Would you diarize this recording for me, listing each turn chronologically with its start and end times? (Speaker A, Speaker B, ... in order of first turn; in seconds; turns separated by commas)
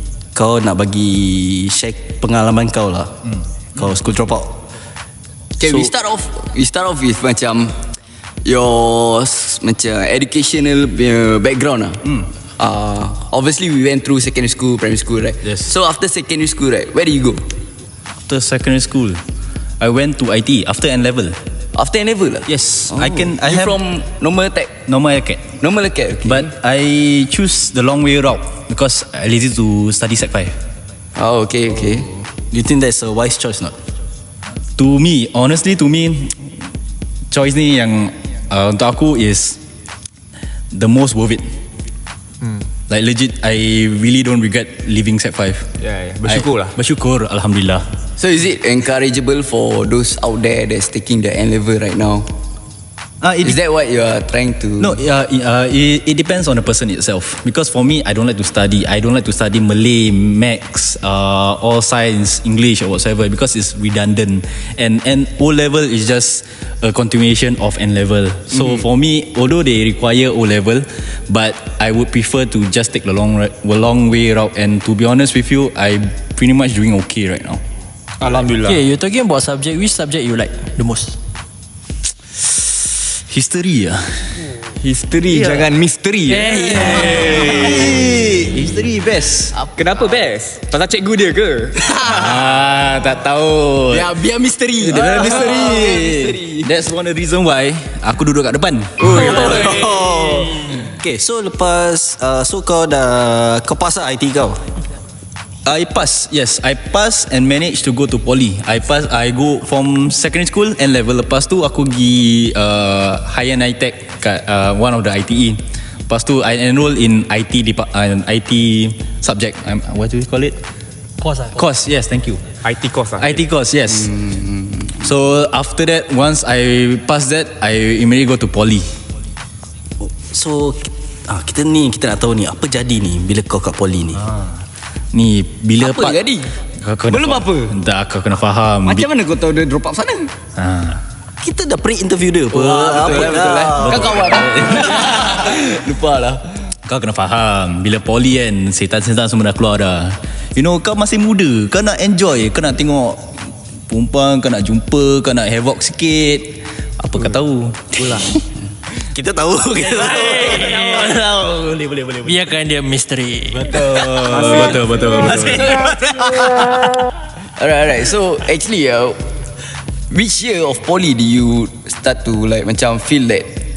Speaker A: 0.3-3.1, Speaker A: 3.8-4.6, Speaker B: 5.6-7.7, Speaker A: 5.6-5.9, Speaker B: 8.4-12.0, Speaker C: 12.0-12.3, Speaker B: 12.6-17.4, Speaker C: 15.4-15.7, Speaker C: 18.3-19.2, Speaker C: 19.8-21.4, Speaker B: 21.8-24.8, Speaker C: 22.5-23.8, Speaker C: 24.8-25.6, Speaker B: 25.6-26.5, Speaker C: 26.2-30.5, Speaker B: 31.2-32.1, Speaker A: 32.3-33.8, Speaker C: 34.8-36.5, Speaker C: 37.3-39.6, Speaker C: 40.7-41.4, Speaker C: 42.9-45.7, Speaker D: 45.8-46.7, Speaker C: 46.2-47.8, Speaker B: 48.2-52.3, Speaker C: 53.2-53.6, Speaker B: 53.4-55.0, Speaker C: 54.8-77.6, Speaker D: 78.2-78.8, Speaker E: 78.7-81.2, Speaker C: 82.6-84.0, Speaker D: 84.7-87.7, Speaker C: 85.3-85.7, Speaker E: 86.3-88.0, Speaker B: 86.8-87.2, Speaker C: 87.3-89.5, Speaker B: 89.5-90.1, Speaker D: 89.8-91.9, Speaker B: 91.8-92.4, Speaker C: 92.0-94.1, Speaker B: 93.9-96.7, Speaker C: 94.8-99.2, Speaker B: 99.0-100.0, Speaker D: 99.1-99.8, Speaker A: 99.2-104.6, Speaker C: 105.7-120.6, Speaker E: 121.2-121.7, Speaker C: 121.5-122.5, Speaker D: 122.6-123.4, Speaker C: 123.2-124.1, Speaker B: 124.1-125.0, Speaker C: 125.0-128.8, Speaker A: 130.0-134.3, Speaker C: 134.2-134.5, Speaker C: 135.1-136.2, Speaker B: 135.8-136.5, Speaker C: 136.8-139.1, Speaker B: 137.1-137.7, Speaker B: 138.8-140.3, Speaker C: 140.6-141.0, Speaker A: 141.4-144.3, Speaker B: 142.5-146.4, Speaker C: 143.7-145.5, Speaker C: 146.8-153.3, Speaker C: 153.9-158.4, Speaker A: 159.1-161.2, Speaker E: 159.8-163.9, Speaker A: 161.8-162.3, Speaker C: 163.6-166.7, Speaker A: 163.7-164.1, Speaker D: 164.2-165.4, Speaker B: 165.4-166.2, Speaker B: 167.6-169.2, Speaker B: 170.1-173.5